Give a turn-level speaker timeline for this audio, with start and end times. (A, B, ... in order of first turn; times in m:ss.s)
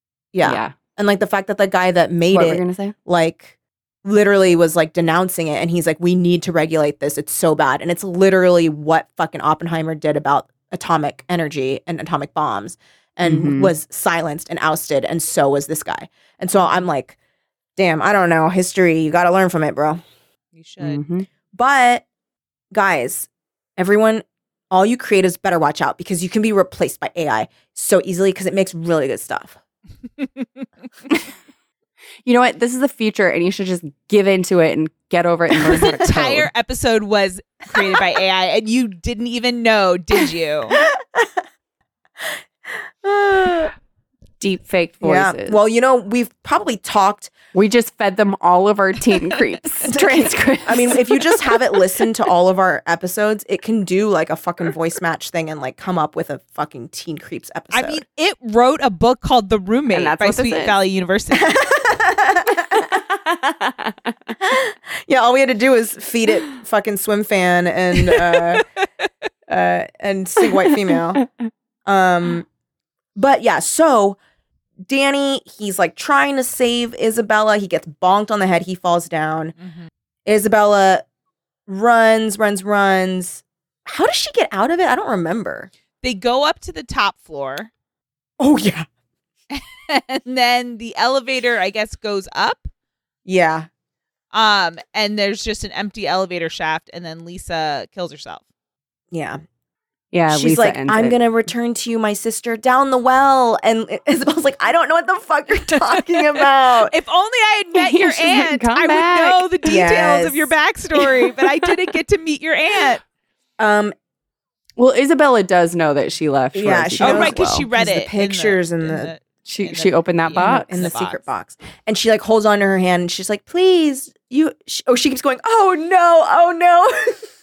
0:00.3-0:03.5 A
0:00.4-0:00.8 B
0:02.3-0:03.0 B
0:04.0-0:17.2 A
0:13.2-0:13.7 B
0:17.8-0:20.0 A
0:20.6-0:21.0 C
0:20.8-0:21.3 B
0:21.5-0:22.0 A
0:22.7-0:29.6 A
0:32.2-0:36.5 B
0:35.7-0:40.8 C
0:40.8-0:41.4 A
0:43.0-0:43.7 A
0:44.4-0:45.6 B
0:45.0-0:47.3 A
0:47.5-0:51.6 B
0:49.9-0:58.0 A
0:57.7-1:01.8 C
0:59.9-1:00.8 B
1:01.4-1:02.9 A
1:02.8-1:04.1 B
1:04.4-1:08.6 A
1:08.3-1:08.6 C
1:09.5-1:11.2 A
1:11.9-1:12.5 A
1:13.2-1:14.2 A
1:14.9-1:19.5 A
1:19.6-1:19.9 C
1:20.3-1:21.0 A
1:21.7-1:25.7 A
1:26.0-1:27.7 C
1:28.4-1:28.9 A
1:29.5-1:32.7 C
1:33.2-1:33.7 A
1:34.3-1:38.4 C
1:39.1-1:39.4 A
1:40.1-1:41.2 B
1:40.3-1:47.0 A
1:46.8-1:53.0 C
1:47.8-1:49.5 B
1:49.7-1:50.5 A
1:53.6-1:53.9 A
1:54.8-1:57.7 B
1:56.5-1:59.1 A
1:57.0-2:01.2 C
1:59.5-2:00.9 B
2:00.4-2:07.2 A